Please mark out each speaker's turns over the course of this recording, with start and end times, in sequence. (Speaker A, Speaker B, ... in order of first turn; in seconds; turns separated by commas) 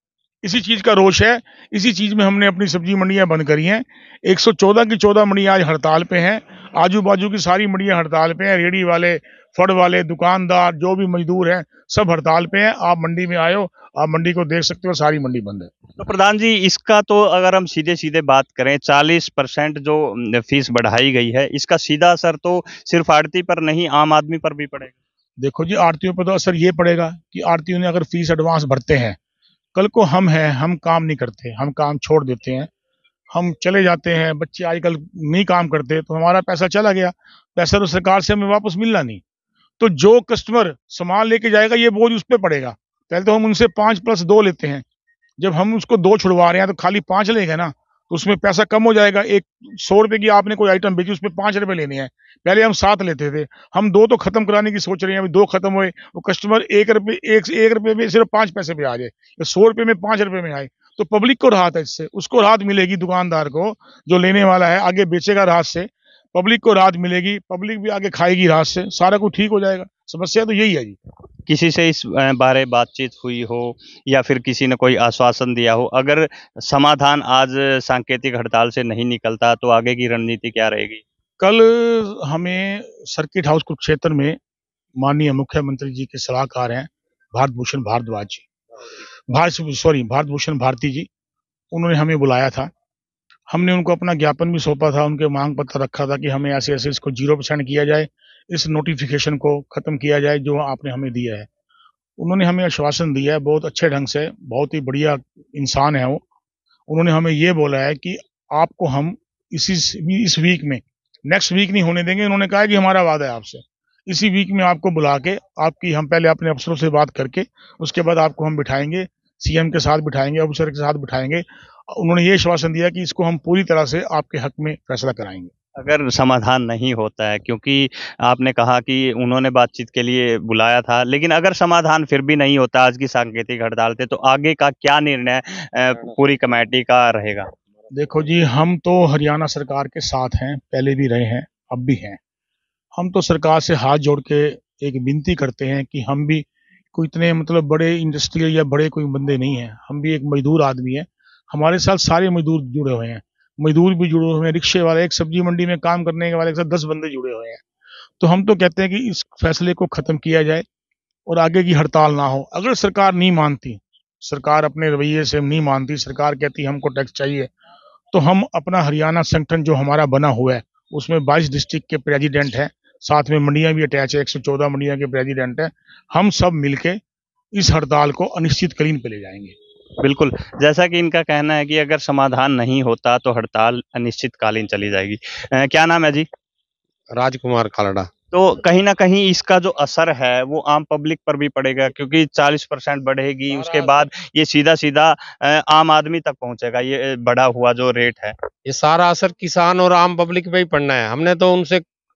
Speaker A: 0.4-15.7, Speaker B: 16.0-25.0, Speaker A: 25.4-29.2, Speaker A: 29.8-32.7, Speaker A: 33.3-39.2, Speaker A: 39.8-44.8, Speaker A: 45.4-71.0, Speaker B: 71.5-81.0, Speaker A: 81.4-84.4, Speaker A: 85.0-88.5, Speaker A: 89.3-91.1, Speaker A: 91.7-92.7, Speaker A: 93.5-101.5, Speaker A: 102.2-106.2, Speaker A: 106.9-125.5, Speaker B: 125.8-137.5, Speaker A: 137.9-142.2, Speaker A: 143.0-157.6, Speaker A: 158.2-160.6, Speaker A: 161.3-167.5, Speaker A: 168.1-177.0, Speaker A: 177.6-179.5, Speaker B: 180.0-186.3, Speaker C: 187.2-188.1, Speaker B: 188.3-198.3, Speaker C: 193.7-193.9, Speaker C: 198.7-201.8